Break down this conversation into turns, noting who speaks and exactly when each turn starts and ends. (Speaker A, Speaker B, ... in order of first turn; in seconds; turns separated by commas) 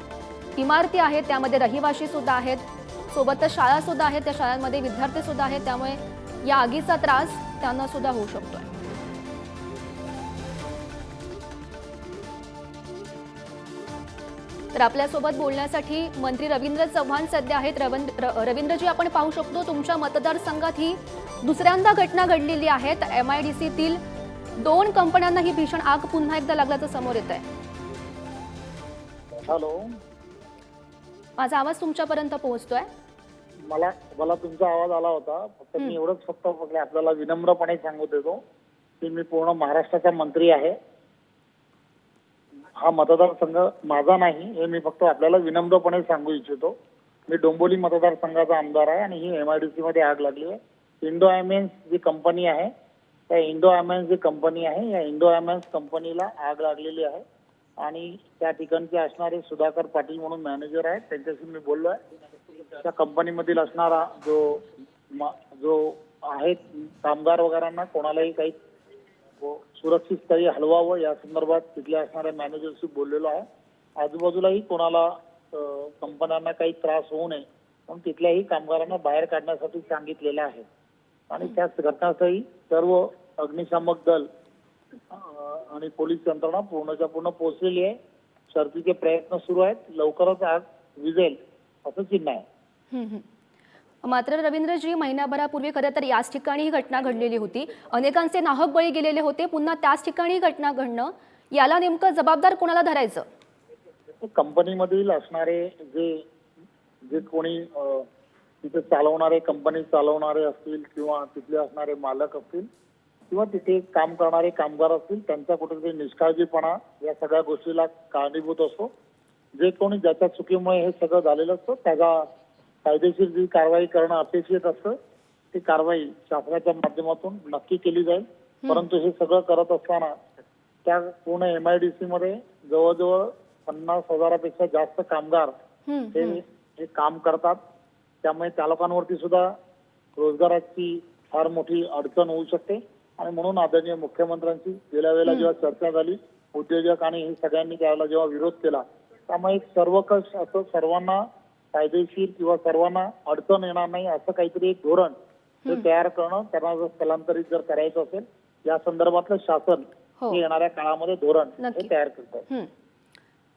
Speaker A: 0.6-8.7, Speaker A: 14.7-24.0, Speaker A: 24.6-27.4, Speaker B: 29.4-29.9, Speaker A: 31.4-32.9, Speaker B: 33.7-38.4, Speaker B: 39.0-40.7, Speaker B: 42.8-46.7, Speaker B: 47.3-52.7, Speaker B: 53.3-57.2, Speaker B: 57.8-62.0, Speaker B: 62.8-68.5, Speaker B: 69.4-73.4, Speaker B: 74.0-80.7, Speaker B: 81.3-84.3, Speaker B: 85.1-87.9, Speaker B: 88.5-92.4, Speaker A: 92.9-93.2, Speaker A: 94.0-103.2, Speaker B: 104.2-106.1, Speaker B: 107.1-108.0, Speaker B: 108.6-112.7, Speaker B: 113.3-118.9, Speaker B: 119.6-122.2, Speaker B: 122.8-124.9, Speaker B: 125.5-130.1, Speaker B: 130.8-135.5, Speaker A: 135.9-136.4, Speaker B: 136.1-137.6, Speaker B: 138.2-139.5, Speaker B: 140.2-151.2, Speaker B: 151.7-155.1, Speaker B: 155.7-162.4, Speaker A: 161.6-161.9